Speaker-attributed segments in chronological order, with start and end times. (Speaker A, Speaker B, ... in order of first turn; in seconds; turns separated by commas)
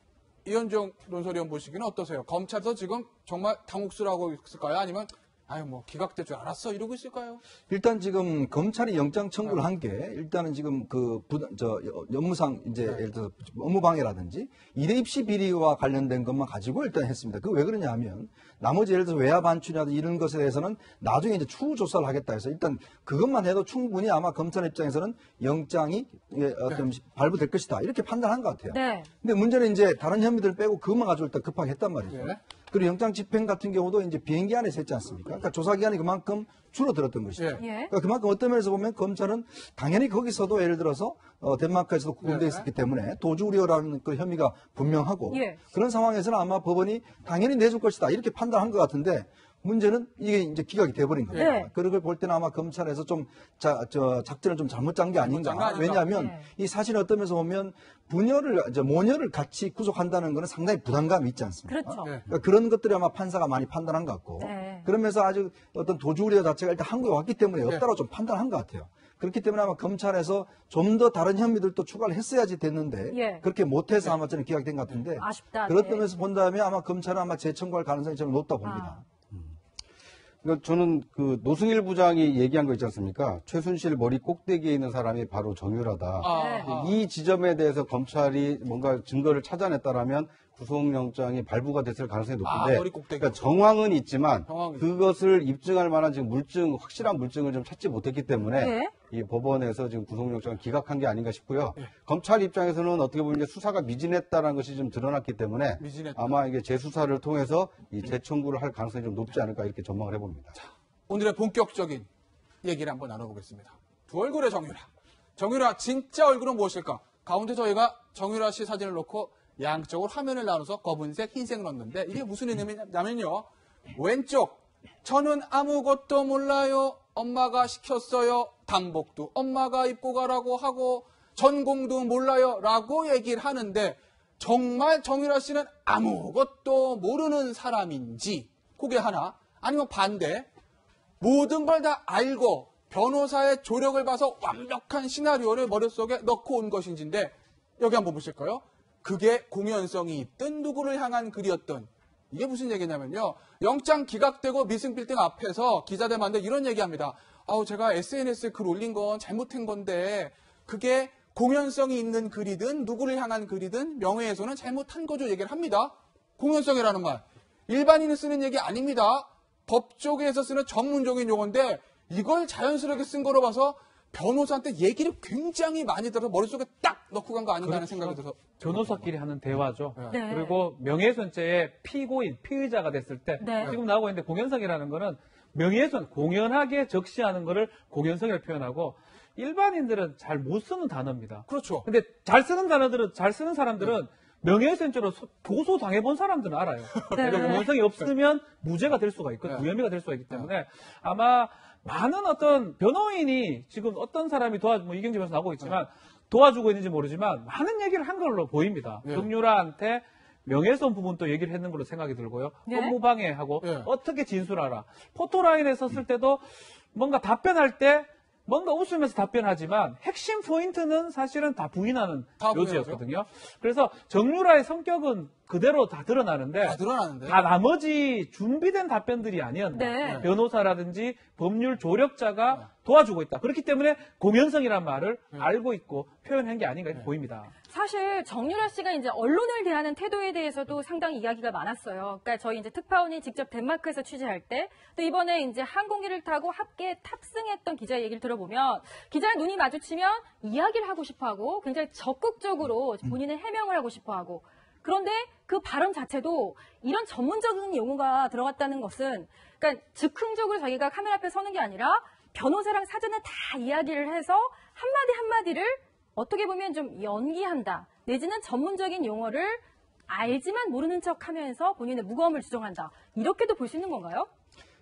Speaker A: 0.4-7.4, Speaker B: 7.7-79.0, Speaker C: 28.7-29.1, Speaker A: 32.1-32.4, Speaker C: 37.6-37.9, Speaker A: 42.2-42.6, Speaker C: 45.3-45.6, Speaker C: 51.3-51.7, Speaker A: 55.2-56.1, Speaker C: 56.0-56.5, Speaker C: 61.7-62.1, Speaker C: 64.4-64.9, Speaker C: 73.1-73.4, Speaker C: 75.2-76.0, Speaker C: 78.6-79.0, Speaker D: 80.4-110.5, Speaker A: 86.2-86.9, Speaker C: 86.3-86.7, Speaker A: 92.4-93.4, Speaker A: 94.5-94.8, Speaker C: 98.5-98.9, Speaker A: 105.8-106.4, Speaker A: 110.5-112.1, Speaker A: 112.6-140.5, Speaker A: 141.2-179.1, Speaker E: 177.6-237.5, Speaker C: 180.1-180.6, Speaker C: 183.4-183.8, Speaker A: 191.5-191.8, Speaker A: 197.0-198.0, Speaker C: 197.1-197.6, Speaker C: 212.7-212.9, Speaker A: 213.6-213.9, Speaker A: 222.4-223.0, Speaker A: 226.6-227.4, Speaker C: 229.7-230.2, Speaker A: 230.0-230.3, Speaker C: 237.7-274.3